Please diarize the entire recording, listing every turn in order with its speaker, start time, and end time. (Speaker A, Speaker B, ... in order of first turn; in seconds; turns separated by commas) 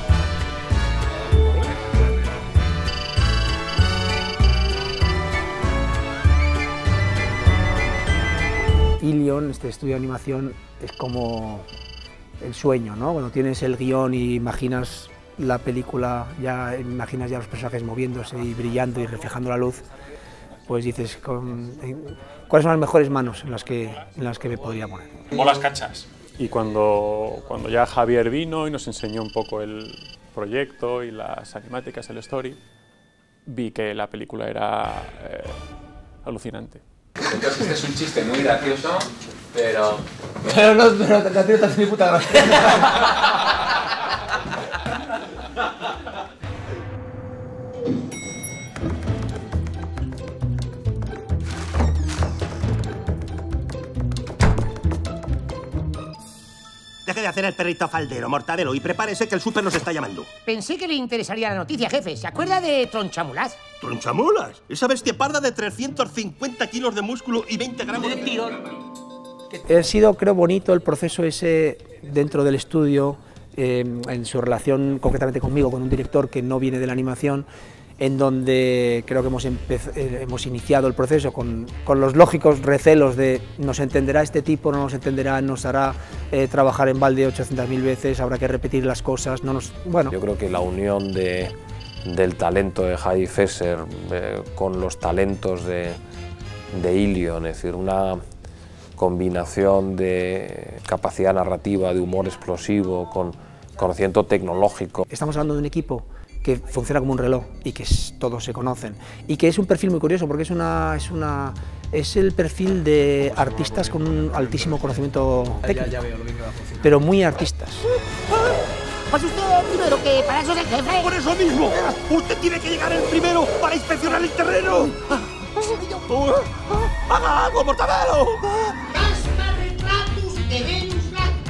Speaker A: 1.1-2.1, Speaker B: 9.0-11.7, Speaker B: 12.4-19.9, Speaker B: 20.7-25.3, Speaker C: 25.3-32.6, Speaker C: 33.5-35.6, Speaker C: 36.2-36.8, Speaker A: 37.2-40.0, Speaker B: 40.4-42.8, Speaker D: 57.0-60.3, Speaker E: 60.4-63.6, Speaker D: 63.8-68.2, Speaker B: 69.6-77.5, Speaker B: 78.0-90.1, Speaker F: 90.1-96.0, Speaker F: 96.7-98.2, Speaker F: 99.0-105.0, Speaker B: 105.1-116.0, Speaker B: 116.8-117.8, Speaker E: 119.1-121.2, Speaker D: 121.3-128.5, Speaker E: 128.9-131.3